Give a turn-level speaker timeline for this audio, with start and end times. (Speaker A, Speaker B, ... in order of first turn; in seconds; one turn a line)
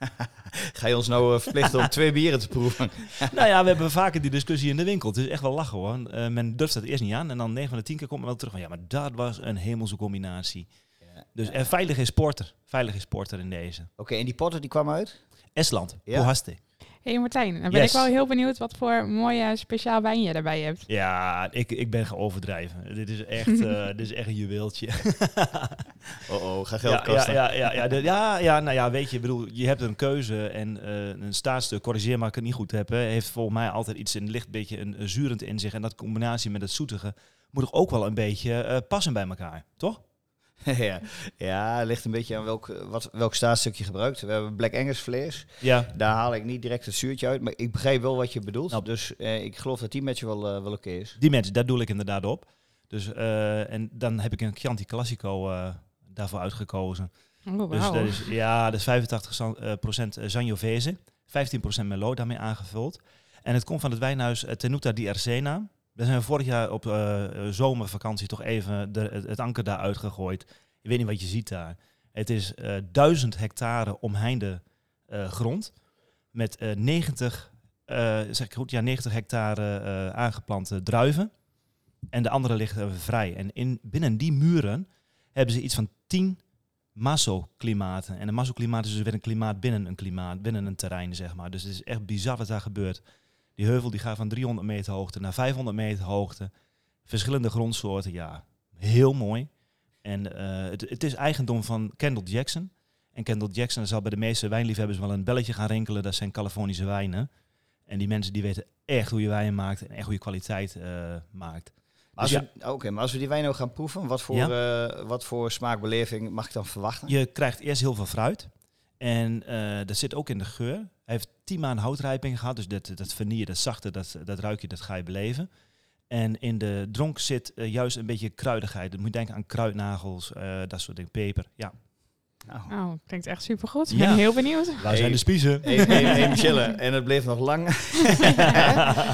Speaker A: 0.2-3.3
Speaker B: 3.2-10.7
Speaker A: 11.2-11.6
Speaker B: 11.3-13.9
Speaker A: 14.0-15.2
Speaker B: 15.5-16.6
Speaker A: 16.1-16.3
Speaker C: 17.0-20.9
Speaker B: 17.7-18.1
Speaker B: 20.9-26.1
Speaker A: 26.2-27.5
Speaker B: 26.8-40.0
Speaker A: 40.6-51.2
Speaker B: 45.6-45.9
Speaker B: 51.2-75.8
Speaker C: 57.5-58.3
Speaker B: 76.3-81.3
Speaker B: 82.1-86.4
Speaker B: 86.9-93.0
Speaker B: 93.5-96.5
Speaker B: 97.0-107.3
Speaker B: 107.8-112.5
Speaker A: 112.2-117.1
Speaker B: 117.1-125.5
Speaker B: 126.1-131.8
Speaker A: 132.4-132.7
Speaker C: 132.7-136.5
Speaker B: 133.9-136.2
Speaker A: 134.9-138.8